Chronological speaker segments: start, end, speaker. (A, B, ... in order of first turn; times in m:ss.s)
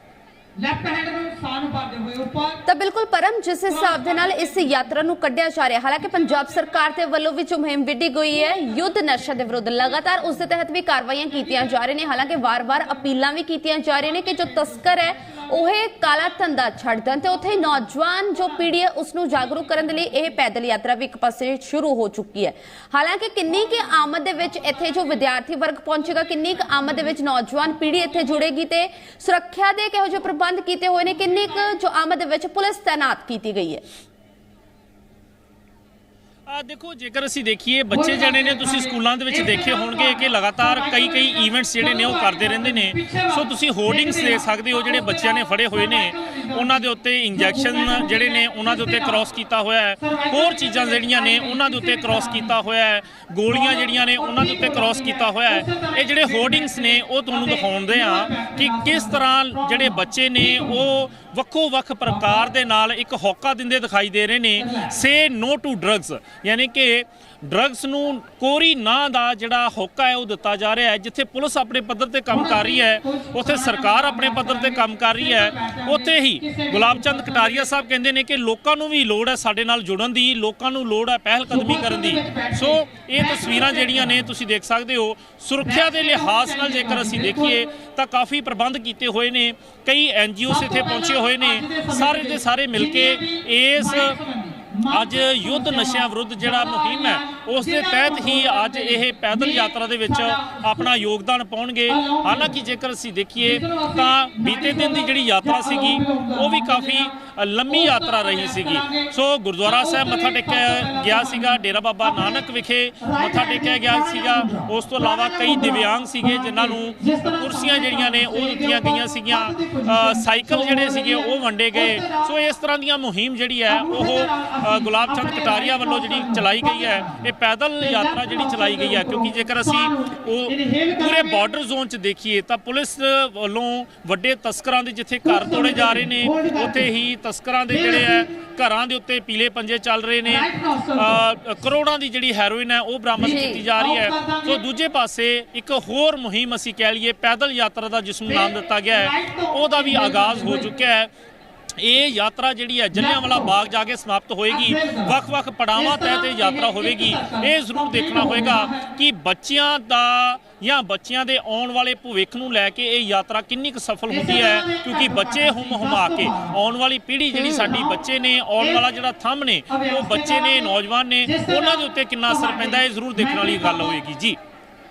0:00.6-0:02.6 A
0:02.6-0:33.8 B
0:03.7-0:05.0 A
0:06.0-0:06.8 A
0:08.3-0:10.3 A
0:11.3-0:11.9 A
0:12.6-0:13.0 A
0:14.0-0:18.7 A
0:19.3-0:20.3 A
0:23.5-0:25.2 A
0:26.0-0:28.5 A
0:31.1-0:31.8 A
0:36.5-1:34.2 C
0:37.9-0:49.2 A
0:50.0-0:52.5 A
0:53.5-1:00.8 A
1:02.0-1:02.5 A
1:04.6-1:05.0 A
1:12.3-1:17.7 A
1:21.5-1:24.2 A
1:25.6-1:27.7 A
1:30.5-1:40.9 A
1:34.9-2:31.1 C
1:41.9-1:42.6 A
1:43.4-1:47.1 A
1:47.7-1:49.1 A
1:49.6-1:52.4 A
1:53.0-2:02.4 A
2:03.7-2:07.3 A
2:07.8-2:11.4 A
2:15.2-2:16.9 A
2:17.7-2:18.3 A
2:20.2-2:21.3 A
2:23.2-2:24.6 A
2:23.2-2:23.6 B
2:28.2-2:30.7 A
2:31.8-2:54.4 C
2:32.9-2:33.5 A
2:34.5-2:35.1 A
2:35.7-2:38.9 A
2:44.1-2:46.6 A
2:47.3-2:47.7 B
2:47.5-2:48.0 A
2:48.6-2:48.8 A
2:49.7-2:54.0 A